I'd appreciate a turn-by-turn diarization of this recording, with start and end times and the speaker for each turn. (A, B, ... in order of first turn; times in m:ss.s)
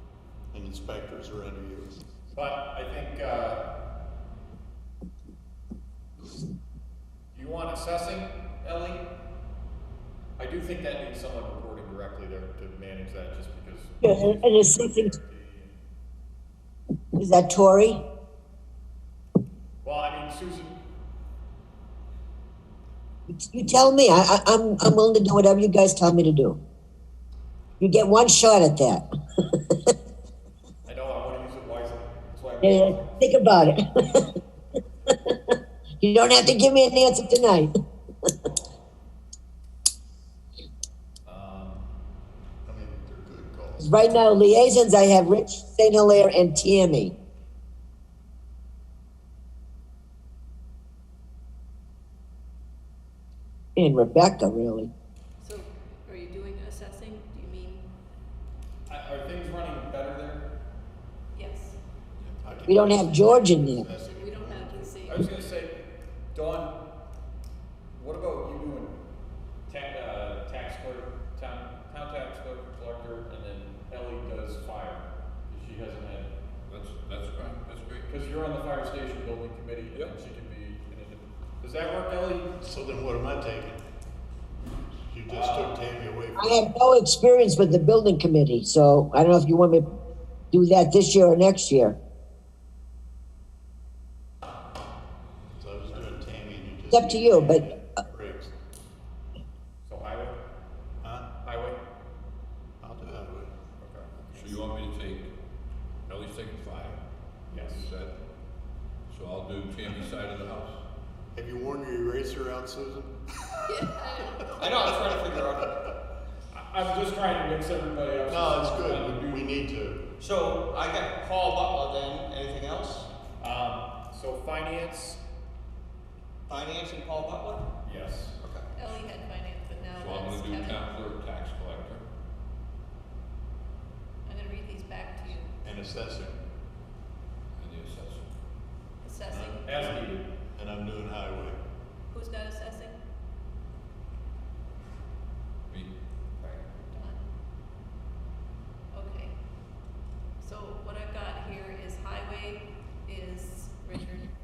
0:00.5-0:02.0 A
0:02.3-0:03.7 B
0:07.3-0:09.1 B
0:10.4-0:15.8 B
0:14.0-0:15.1 C
0:17.2-0:18.0 C
0:19.8-0:20.7 B
0:23.3-0:26.6 C
0:27.8-0:29.7 C
0:30.9-0:33.2 B
0:32.6-0:34.3 C
0:35.3-0:37.7 C
0:41.3-0:41.8 B
0:42.6-0:44.0 A
0:43.8-0:47.1 C
0:53.8-0:54.9 C
0:55.4-0:57.9 D
0:58.9-1:00.5 B
1:01.3-1:01.8 D
1:02.4-1:05.2 A
1:02.7-1:03.9 C
1:03.3-1:05.4 D
1:05.0-1:05.8 B
1:06.3-1:06.8 B
1:08.0-1:09.0 B
1:09.7-1:16.3 B
1:16.7-1:18.1 E
1:18.0-1:22.5 B
1:22.6-1:23.8 A
1:25.1-1:26.7 A
1:25.3-1:25.8 B
1:26.4-1:29.8 C
1:30.5-1:32.0 C
1:35.6-1:38.5 A
1:36.9-1:37.7 C
1:39.8-1:40.4 B
1:41.0-1:41.3 A
1:41.4-1:41.8 B
1:42.8-1:43.5 A
1:43.8-1:44.6 B
1:44.3-1:45.3 E
1:46.1-1:47.0 E
1:47.5-1:47.9 B
1:47.6-1:48.2 E
1:49.1-1:50.8 E
1:51.3-1:53.6 A
1:53.7-1:54.9 D
1:54.5-1:55.8 F
1:54.6-1:55.5 A
1:56.5-1:59.5 B
1:58.3-2:00.0 A
2:00.2-2:03.1 F
2:03.4-2:05.2 B
2:06.5-2:07.7 F
2:07.8-2:08.4 B
2:08.4-2:08.7 F
2:08.7-2:11.0 D
2:09.9-2:12.0 E
2:14.3-2:15.6 D
2:15.6-2:16.4 A
2:17.6-2:18.3 E
2:19.0-2:19.6 D
2:19.3-2:21.6 A
2:19.6-2:20.3 B
2:22.1-2:23.0 D
2:26.8-2:27.2 D
2:28.9-2:29.4 D
2:30.4-2:34.3 D